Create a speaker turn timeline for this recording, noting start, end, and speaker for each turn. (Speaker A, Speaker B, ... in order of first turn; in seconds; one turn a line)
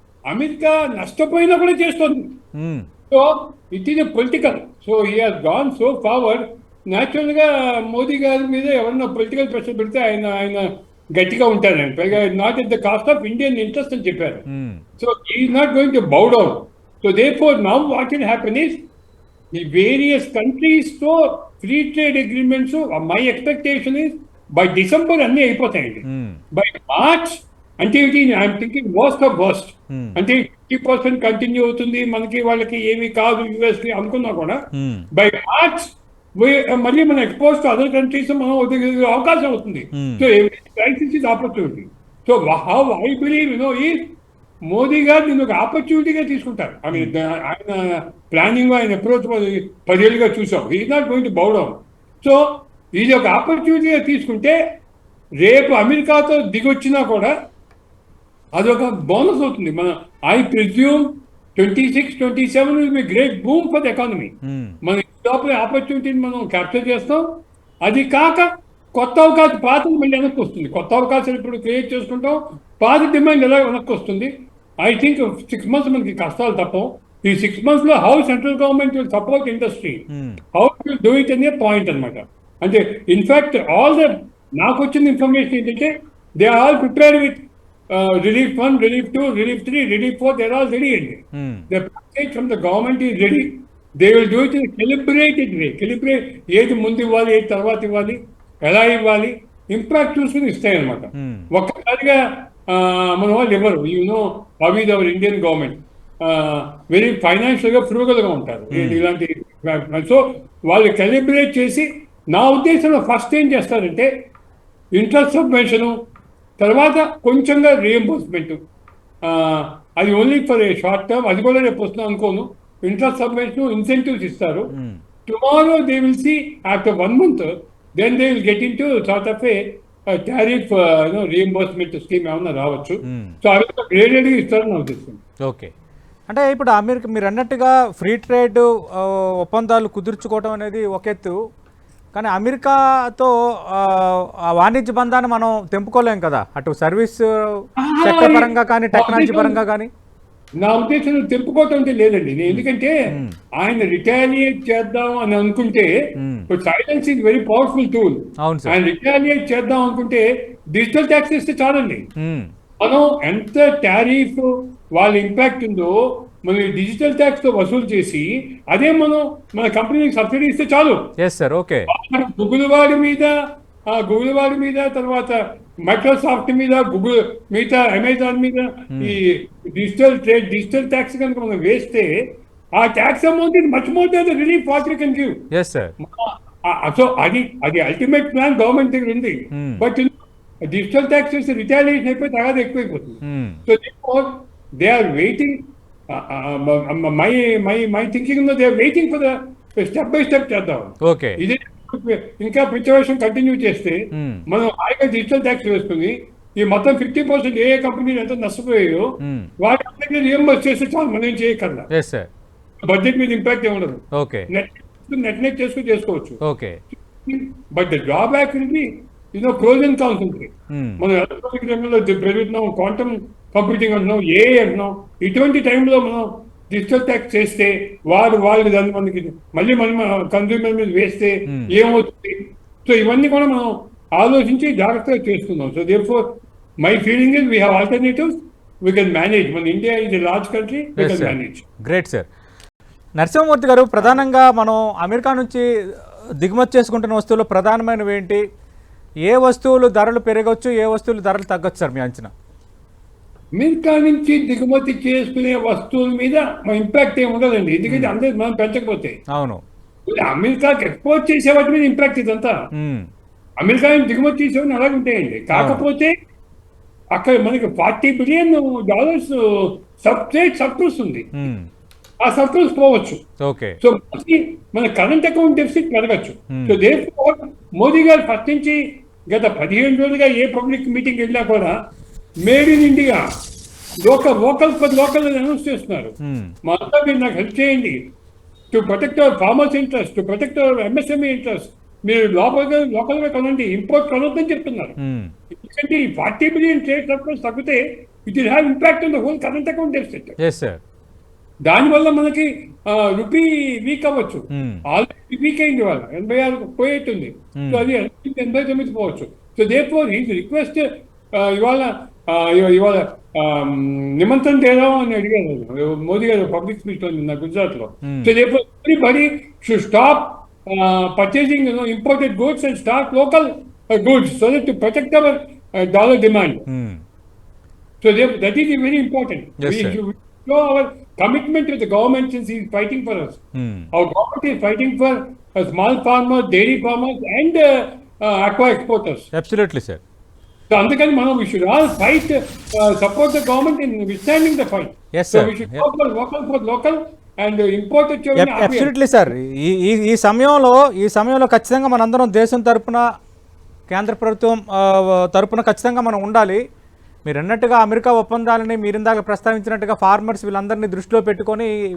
Speaker A: 0.3-2.4
Speaker B: 2.6-2.9
Speaker A: 3.1-14.5
Speaker B: 14.5-14.8
Speaker A: 15.0-18.8
Speaker A: 19.5-34.6
Speaker B: 26.0-26.4
Speaker B: 29.9-30.2
Speaker B: 34.8-35.1
Speaker A: 35.1-44.1
Speaker B: 40.0-40.3
Speaker A: 44.7-54.5
Speaker A: 55.4-57.3
Speaker A: 58.5-74.3
Speaker B: 64.4-64.8
Speaker A: 74.8-114.1
Speaker B: 80.1-80.4
Speaker B: 91.3-91.7
Speaker B: 101.1-101.5
Speaker B: 108.7-109.0
Speaker A: 114.9-115.9
Speaker A: 116.6-118.6
Speaker A: 119.2-124.7
Speaker B: 124.7-125.0
Speaker A: 125.3-129.6
Speaker A: 130.1-135.2
Speaker B: 133.1-133.4
Speaker B: 135.4-135.7
Speaker B: 136.3-141.3
Speaker B: 142.1-147.2
Speaker A: 147.8-149.6
Speaker B: 148.0-149.9
Speaker A: 150.6-153.0
Speaker B: 152.5-153.4
Speaker A: 153.6-155.9
Speaker B: 156.2-156.5
Speaker A: 156.5-162.1
Speaker B: 158.4-158.8
Speaker B: 162.2-162.5
Speaker A: 162.8-171.1
Speaker B: 171.2-171.9
Speaker A: 171.9-173.3
Speaker A: 173.9-182.1
Speaker A: 182.8-185.4
Speaker B: 185.5-185.9
Speaker A: 186.0-190.1
Speaker B: 189.5-189.8
Speaker A: 190.7-195.6
Speaker B: 193.2-193.6
Speaker A: 196.1-209.1
Speaker B: 201.0-201.4
Speaker B: 204.1-204.4
Speaker B: 209.2-209.5
Speaker A: 209.6-211.9
Speaker B: 211.9-212.3
Speaker A: 212.8-216.4
Speaker B: 214.2-214.5
Speaker B: 216.4-216.8
Speaker A: 217.2-236.3
Speaker B: 220.7-221.0
Speaker B: 231.5-231.7
Speaker A: 236.8-238.3
Speaker A: 238.8-241.6
Speaker B: 241.0-242.2
Speaker B: 243.2-245.7
Speaker B: 246.4-248.4
Speaker B: 249.2-252.3
Speaker A: 253.6-259.1
Speaker B: 257.9-258.1
Speaker B: 259.3-259.6
Speaker A: 260.1-262.5
Speaker B: 262.8-263.1
Speaker A: 263.6-266.1
Speaker B: 265.5-265.9
Speaker A: 267.1-271.3
Speaker B: 271.4-271.7
Speaker A: 272.2-273.2
Speaker B: 273.4-273.8
Speaker A: 273.8-281.7
Speaker B: 276.5-276.8
Speaker A: 282.4-283.2
Speaker A: 284.0-288.1
Speaker B: 286.2-286.5
Speaker A: 288.7-295.0
Speaker B: 295.0-295.3
Speaker A: 295.5-300.4
Speaker B: 300.4-300.8
Speaker A: 301.6-326.6
Speaker B: 304.5-304.8
Speaker B: 307.6-307.9
Speaker B: 318.0-318.3
Speaker B: 326.7-327.0
Speaker A: 328.0-333.4
Speaker B: 329.6-330.0
Speaker B: 333.6-333.9
Speaker A: 333.9-339.3
Speaker B: 339.3-340.0
Speaker A: 340.7-349.0
Speaker B: 345.1-345.8
Speaker B: 348.4-353.0
Speaker B: 353.9-356.6
Speaker B: 357.2-361.7